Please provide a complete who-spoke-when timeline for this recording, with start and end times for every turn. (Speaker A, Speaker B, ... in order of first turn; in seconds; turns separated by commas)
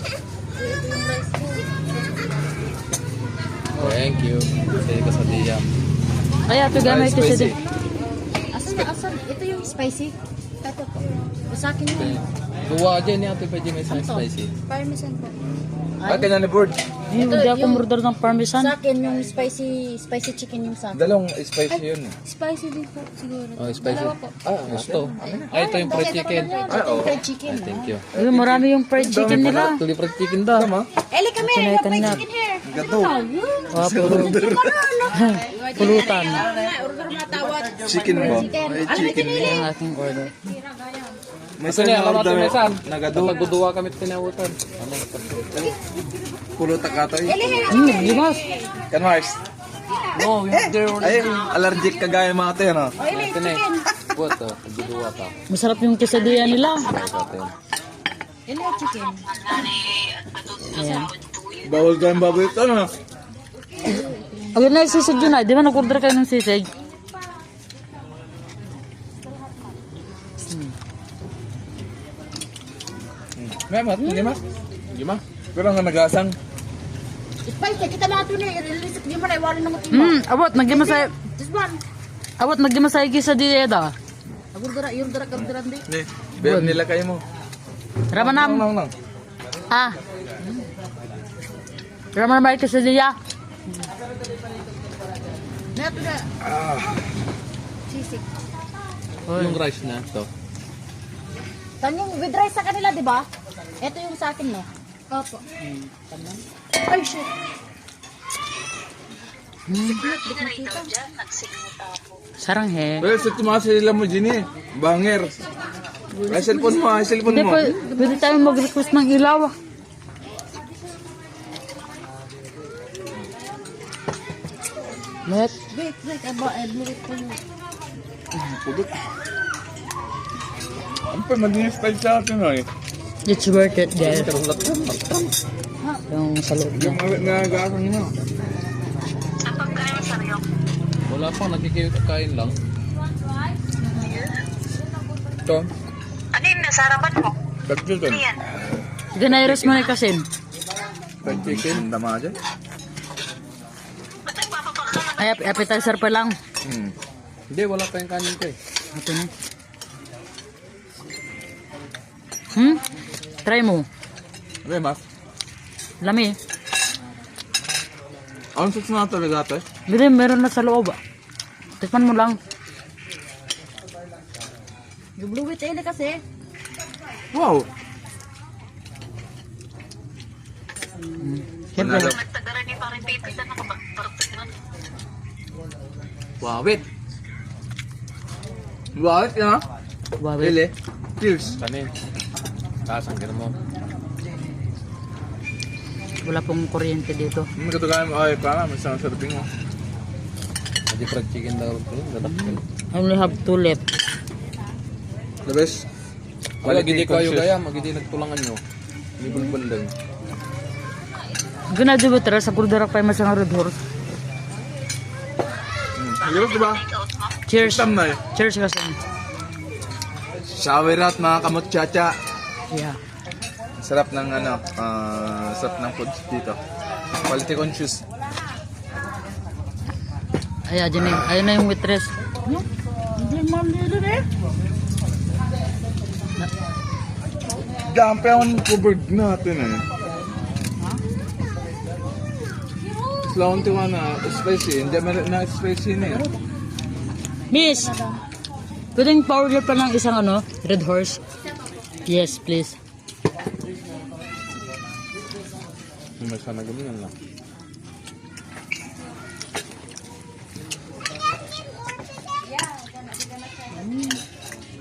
Speaker A: 0.6-1.7, Speaker B: 3.8-5.7, Speaker C: 6.5-7.6, Speaker D: 6.8-7.6, Speaker A: 8.5-12.2, Speaker B: 11.9-14.5, Speaker A: 13.9-15.4, Speaker A: 16.0-16.3, Speaker D: 16.1-16.8, Speaker C: 17.1-18.7, Speaker A: 17.1-17.9, Speaker A: 18.5-21.1, Speaker D: 20.9-22.1, Speaker A: 21.7-24.3, Speaker B: 23.6-28.1, Speaker D: 24.6-26.0, Speaker A: 25.2-27.9, Speaker D: 26.7-27.2, Speaker D: 28.1-29.7, Speaker C: 28.1-29.8, Speaker B: 29.2-30.7, Speaker D: 30.5-30.9, Speaker A: 31.1-39.7, Speaker C: 31.4-32.2, Speaker D: 32.6-33.2, Speaker C: 33.7-34.4, Speaker D: 33.7-34.9, Speaker C: 35.1-36.5, Speaker D: 37.8-39.7, Speaker C: 39.3-40.4, Speaker D: 41.6-43.4, Speaker B: 41.6-45.7, Speaker A: 45.5-46.0, Speaker D: 46.6-48.0, Speaker A: 47.2-48.7, Speaker C: 47.7-48.4, Speaker D: 48.9-49.4, Speaker B: 50.1-51.5, Speaker D: 50.5-52.9, Speaker A: 53.0-54.1, Speaker B: 53.0-55.3, Speaker C: 55.5-56.9, Speaker E: 56.1-57.2, Speaker B: 56.5-57.5, Speaker A: 58.5-59.6, Speaker E: 58.6-62.1, Speaker C: 60.7-61.1, Speaker D: 61.6-62.9, Speaker A: 63.8-65.5, Speaker C: 64.5-66.7, Speaker D: 73.3-74.4, Speaker A: 74.1-74.4, Speaker B: 74.9-75.2, Speaker D: 75.5-76.3, Speaker A: 77.4-81.8, Speaker C: 79.9-81.1, Speaker C: 82.4-83.9, Speaker A: 84.5-85.8, Speaker D: 85.4-87.2, Speaker C: 86.4-86.8, Speaker C: 88.1-88.7, Speaker D: 88.1-88.9, Speaker C: 89.7-90.0, Speaker C: 92.1-93.2, Speaker A: 95.7-96.3, Speaker D: 96.4-97.0, Speaker A: 97.9-98.2, Speaker C: 99.3-99.6, Speaker B: 99.3-100.3, Speaker A: 101.8-103.3, Speaker A: 103.8-107.3, Speaker C: 109.7-110.1, Speaker A: 109.8-110.9, Speaker E: 109.8-112.2, Speaker C: 112.4-113.0, Speaker D: 113.0-115.4, Speaker A: 116.1-118.8, Speaker D: 116.3-117.7, Speaker C: 117.2-119.5, Speaker C: 125.3-125.5, Speaker A: 125.7-127.4, Speaker D: 128.3-128.9, Speaker D: 131.1-132.7, Speaker C: 133.2-134.3, Speaker B: 134.0-135.3, Speaker C: 136.1-137.2, Speaker D: 136.7-138.1, Speaker E: 139.4-140.4, Speaker B: 141.1-142.6, Speaker E: 146.3-147.3, Speaker D: 147.7-148.2, Speaker E: 148.0-148.4, Speaker C: 149.1-150.3, Speaker D: 149.2-149.8, Speaker B: 151.2-151.8, Speaker D: 151.2-152.4, Speaker E: 154.2-156.0, Speaker C: 155.2-156.4, Speaker D: 156.6-156.9, Speaker B: 157.5-158.6, Speaker C: 158.9-159.3, Speaker C: 162.5-162.8, Speaker C: 163.4-163.9, Speaker D: 164.6-165.0, Speaker C: 166.0-166.4, Speaker D: 168.5-169.6, Speaker C: 169.9-171.0, Speaker C: 171.8-172.4, Speaker A: 175.2-176.2, Speaker D: 177.3-177.7, Speaker C: 181.2-182.1, Speaker D: 181.8-182.2, Speaker E: 181.8-184.5, Speaker D: 186.4-186.8, Speaker D: 188.9-189.6, Speaker C: 190.2-190.6, Speaker D: 190.4-191.6, Speaker B: 191.6-191.9, Speaker B: 192.8-193.6, Speaker C: 196.2-197.5, Speaker D: 197.6-199.5, Speaker B: 200.9-202.6, Speaker C: 202.2-203.8, Speaker D: 205.4-205.8, Speaker B: 206.6-208.6, Speaker D: 206.6-207.5, Speaker B: 209.2-209.9, Speaker A: 209.2-209.5, Speaker C: 211.7-213.8, Speaker D: 215.9-216.8, Speaker E: 216.2-217.4, Speaker C: 217.5-218.9, Speaker D: 217.6-218.2, Speaker D: 220.4-222.1, Speaker C: 222.7-223.0, Speaker D: 223.8-226.6, Speaker D: 227.2-228.0, Speaker C: 230.7-232.1, Speaker A: 233.2-234.2, Speaker D: 237.8-239.8, Speaker D: 243.2-246.2, Speaker A: 246.0-246.4, Speaker C: 247.5-247.9, Speaker A: 247.5-248.2, Speaker C: 248.9-251.2, Speaker C: 252.1-252.8, Speaker B: 256.2-257.1, Speaker D: 256.6-257.0, Speaker A: 263.7-264.2